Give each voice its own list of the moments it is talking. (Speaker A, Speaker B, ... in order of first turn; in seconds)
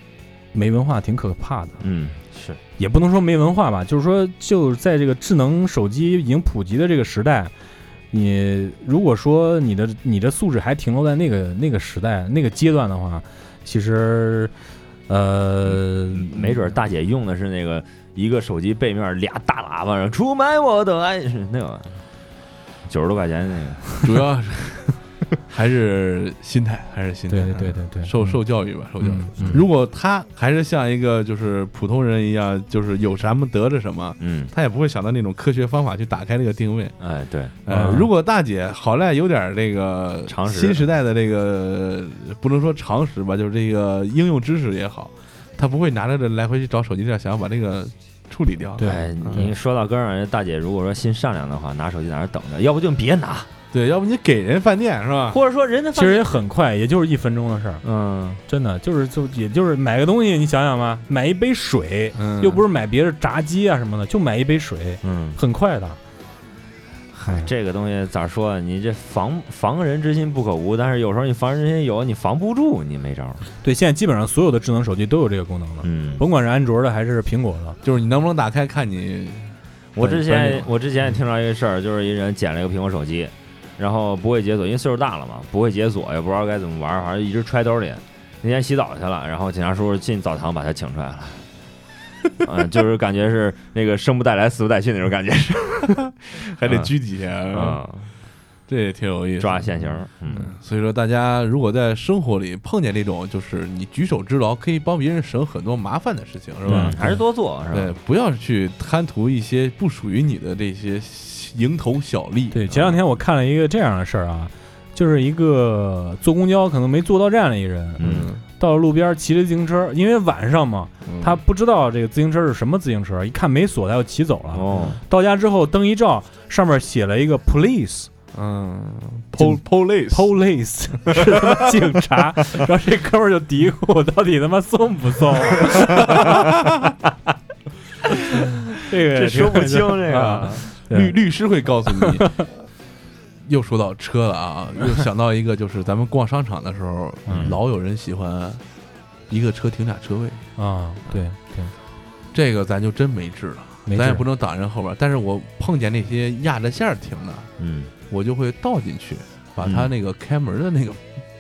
Speaker A: 0.5-1.8, 2.8-7.5, 8.1-14.5, 15.1-16.5, 27.3-28.3, 29.0-29.6, 37.7-38.1, 48.8-49.5, 56.0-57.8, 58.5-66.0, 67.2-67.5, 73.6-77.8, 106.7-107.2, 112.5-128.1, 129.4-136.8, 138.8-141.2, 142.0-142.4, 147.3-147.5, 150.6-151.7, 153.9-154.2
Speaker B: 1.8-2.6, 15.7-21.9, 22.9-24.0, 29.4-29.6, 34.2-34.5, 37.0-37.5, 40.3-40.8, 48.8-53.5, 55.3-56.4, 57.8-58.4, 65.0-65.4, 67.2-73.5, 75.8-76.2, 80.0-91.5, 92.4-96.1, 96.6-96.9, 97.5-98.1, 99.4-100.5, 106.7-107.9, 118.0-118.3, 124.5-125.0, 139.1-140.7, 157.6-157.9, 159.6-159.9
Speaker C: 24.0-25.0, 25.5-36.9, 37.6-49.5, 53.7-55.4, 62.2-62.6, 77.8-80.7, 96.4-97.8, 98.7-107.1, 107.7-113.0, 118.0-118.4, 121.0-121.4, 124.7-125.0, 128.3-130.3, 131.1-131.7, 136.1-136.6, 140.9-142.3, 143.4-148.6, 149.3-150.4, 152.3-157.5, 158.1-161.0